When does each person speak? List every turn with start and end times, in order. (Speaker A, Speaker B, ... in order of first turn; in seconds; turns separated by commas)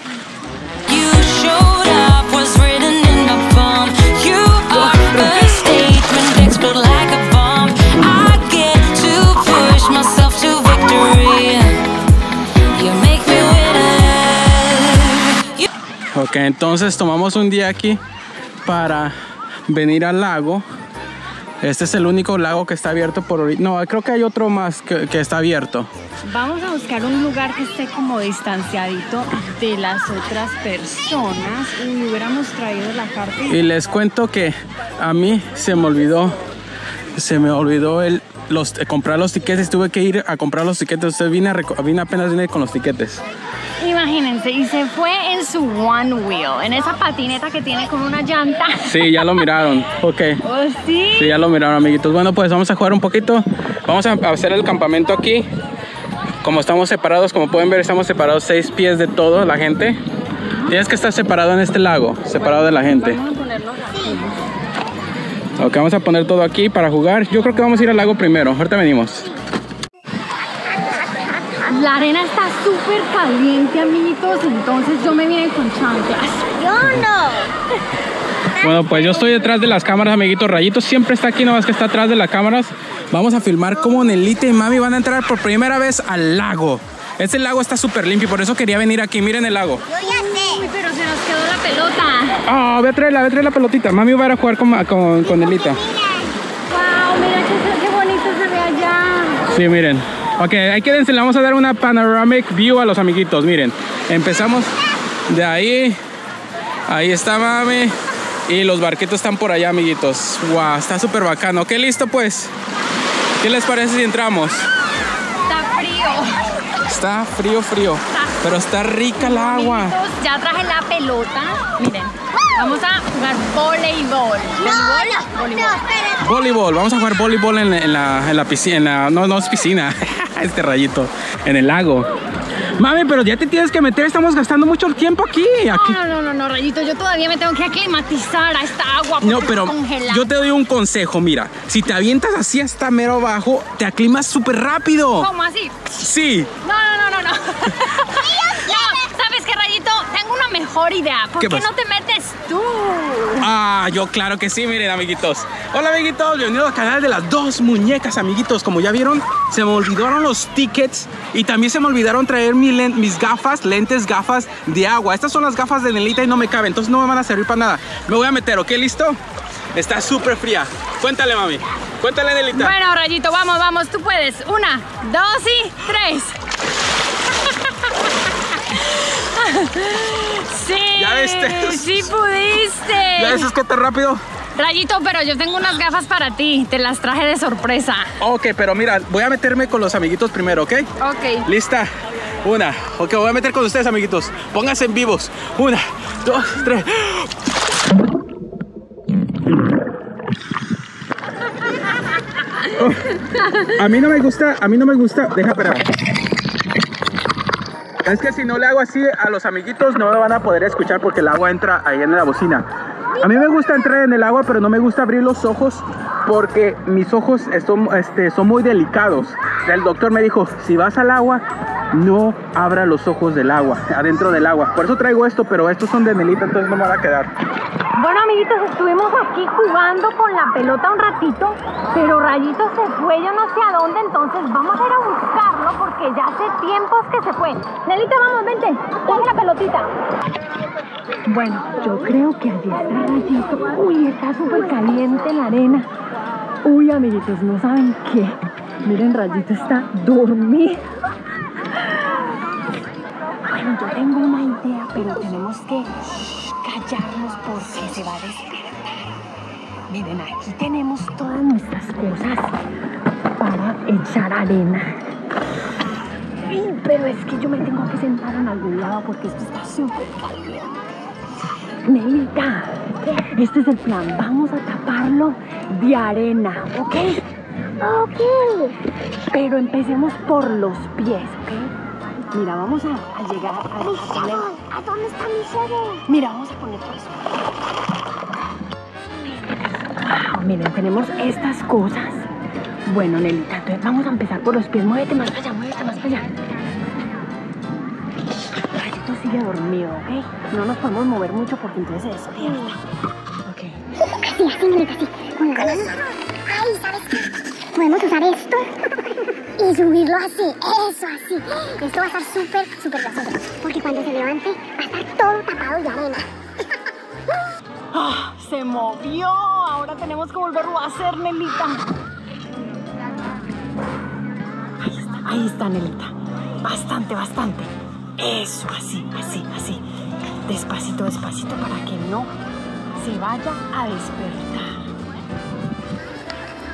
Speaker A: 0.9-12.0, Speaker A: 12.7-15.7, Speaker B: 16.1-18.0, Speaker B: 18.6-19.1, Speaker B: 19.7-20.6, Speaker B: 21.6-25.9, Speaker C: 26.2-33.6, Speaker B: 33.5-36.4, Speaker B: 37.1-43.2, Speaker C: 43.8-49.4, Speaker B: 48.9-50.4, Speaker C: 50.4-51.4, Speaker B: 51.2-55.5, Speaker B: 56.4-60.0, Speaker B: 60.7-63.2, Speaker C: 62.4-64.4, Speaker B: 65.6-69.3, Speaker D: 70.8-71.4, Speaker C: 71.6-76.5, Speaker D: 76.5-77.5, Speaker D: 78.6-79.3, Speaker B: 78.6-89.9, Speaker D: 89.9-90.7, Speaker C: 90.0-92.4, Speaker B: 92.5-95.8, Speaker D: 95.2-96.4, Speaker C: 96.7-99.5, Speaker B: 99.5-104.7, Speaker B: 105.3-106.0, Speaker B: 106.9-107.9, Speaker B: 108.5-112.5, Speaker B: 113.4-114.7, Speaker C: 115.5-116.6, Speaker B: 116.8-120.0, Speaker C: 118.1-118.4, Speaker C: 119.2-125.8, Speaker D: 124.6-126.4, Speaker B: 126.2-132.1, Speaker B: 132.8-136.0, Speaker C: 135.7-140.3, Speaker B: 139.2-145.3, Speaker C: 145.2-145.8, Speaker B: 145.9-146.5, Speaker C: 146.6-153.5, Speaker D: 148.1-149.1, Speaker B: 151.4-151.7, Speaker B: 153.4-169.2, Speaker B: 169.8-172.8, Speaker C: 172.5-176.4, Speaker C: 177.4-183.5, Speaker B: 181.0-182.1, Speaker B: 183.0-184.2, Speaker C: 184.6-188.1, Speaker B: 188.2-190.9, Speaker C: 191.0-191.5, Speaker B: 191.5-191.9, Speaker B: 192.4-197.3, Speaker B: 202.8-205.9, Speaker B: 208.0-212.7, Speaker B: 213.2-227.3, Speaker C: 228.0-239.9, Speaker C: 241.3-245.9, Speaker C: 246.6-250.8, Speaker C: 253.4-255.9, Speaker C: 256.6-258.9, Speaker C: 259.9-262.5, Speaker C: 263.4-264.9, Speaker C: 266.5-270.8, Speaker C: 271.9-277.2, Speaker D: 277.8-278.8, Speaker C: 279.3-281.7, Speaker C: 282.3-284.5, Speaker D: 283.8-286.1, Speaker C: 286.1-287.2, Speaker C: 290.0-292.2, Speaker C: 292.9-296.3, Speaker C: 298.8-302.8, Speaker D: 302.4-302.7, Speaker C: 303.5-303.8, Speaker D: 304.1-307.2, Speaker D: 307.7-316.3, Speaker C: 317.9-321.8, Speaker C: 324.8-329.8, Speaker C: 330.5-332.3, Speaker C: 333.0-334.8